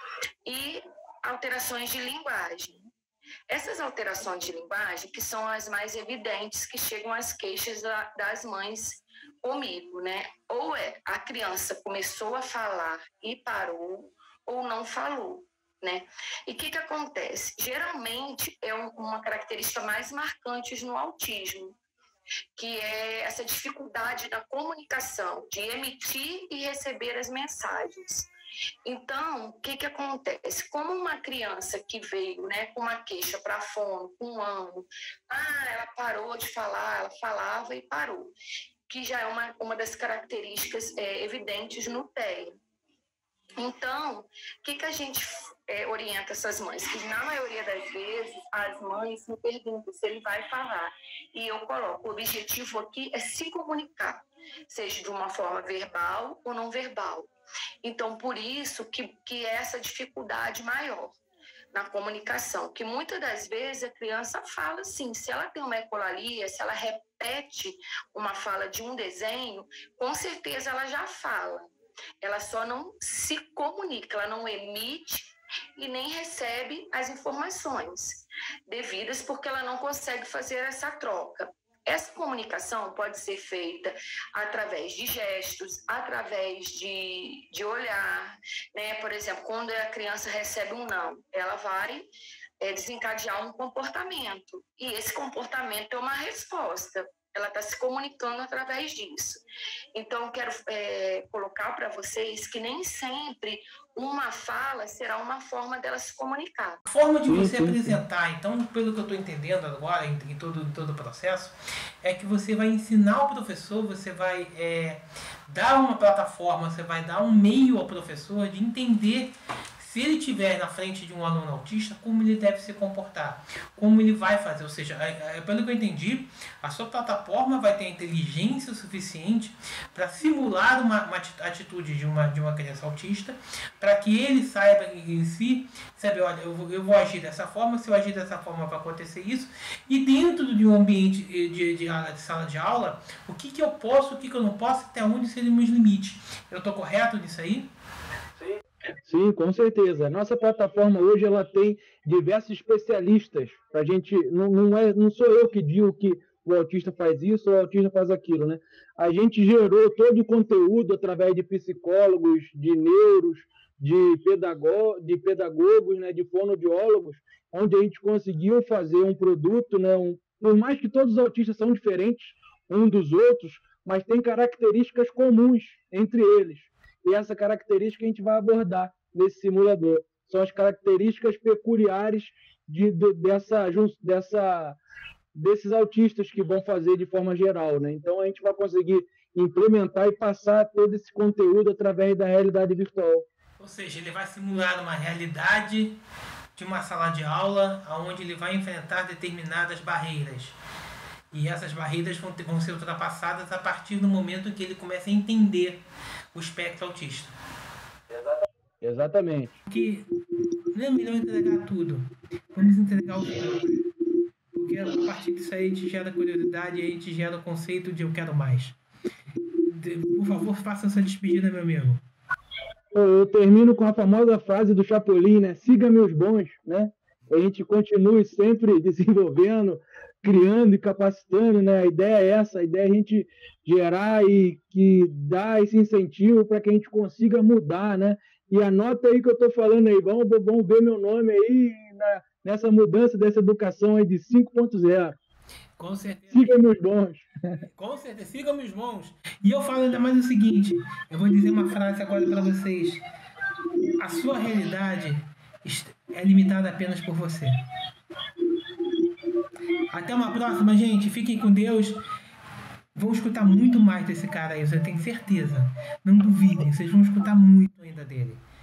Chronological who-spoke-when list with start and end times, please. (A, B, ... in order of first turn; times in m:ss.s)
0:00.4-0:02.9 A
0:03.5-0:21.8 A
0:22.6-0:28.3 A
0:28.8-0:38.3 A
0:38.9-0:42.5 A
0:43.6-0:57.3 A
0:57.8-1:01.2 A
1:01.7-1:11.7 A
1:12.2-1:32.1 A
1:32.6-1:39.4 A
1:39.9-1:46.8 A
1:46.9-2:27.7 B
1:47.3-1:48.0 C
2:29.0-3:04.8 C
3:05.3-3:13.2 C
3:13.6-3:16.0 B
3:16.6-3:20.6 B
3:21.3-3:25.8 B
3:26.3-3:27.3 B
3:28.2-3:29.6 C
3:29.7-3:30.1 B
3:30.7-3:33.8 B
3:34.5-3:38.8 B
3:39.6-3:42.0 B
3:42.9-4:05.2 C
4:05.8-4:06.6 B
4:06.3-4:07.2 C
4:07.8-4:13.0 B
4:14.0-4:17.6 B
4:19.9-4:22.0 B
4:22.9-4:28.4 B